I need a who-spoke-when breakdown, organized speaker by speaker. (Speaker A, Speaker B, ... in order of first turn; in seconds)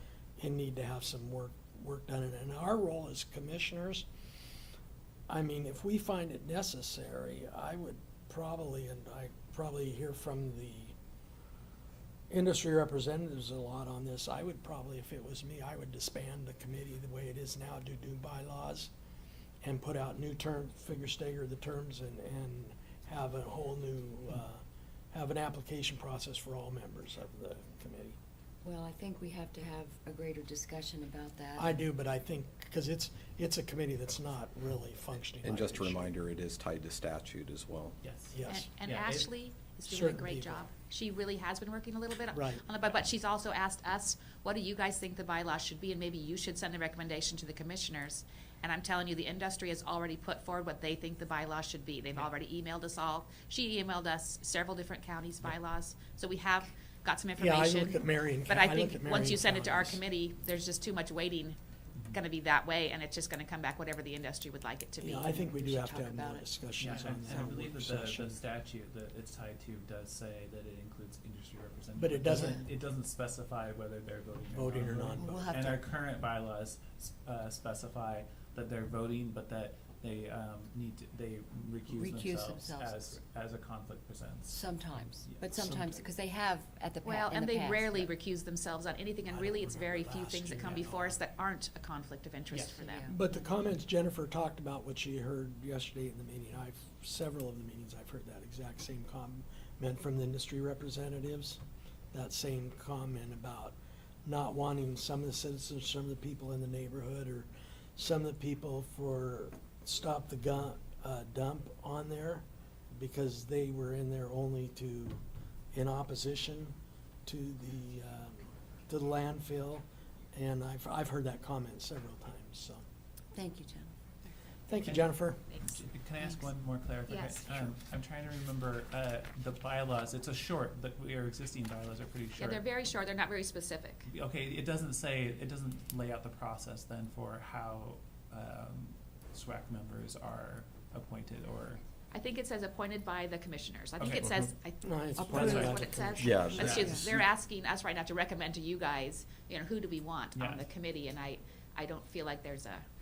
Speaker A: 0.4-4.1, 5.3-10.9, 12.3-18.9, 19.6-28.2, 31.6-36.1, 38.3-38.7, 39.9-40.6, 42.3-42.6, 57.4-60.0, 65.0-68.4, 72.0-72.7, 74.5-75.5, 85.5-86.1, 89.3-91.1, 93.1-101.6, 102.1-115.2, 115.7-116.7, 117.3-122.8, 124.7-125.4, 144.8-147.0
Speaker B: 28.6-31.8, 65.0-67.5, 75.2-75.9, 81.9-83.0, 84.5-88.2, 92.7-93.4, 123.3-124.3, 145.2-147.2
Speaker C: 35.4-38.0, 146.2-146.9
Speaker D: 38.0-39.3, 66.8-84.7, 90.5-91.0, 92.5-92.8, 124.8-132.6, 134.1-141.8, 144.0-144.5, 145.3-145.8, 146.5-147.0, 150.3-150.6
Speaker E: 38.5-65.3, 87.0-93.0, 125.5-125.9, 127.1-127.7, 132.4-134.1, 142.1-152.8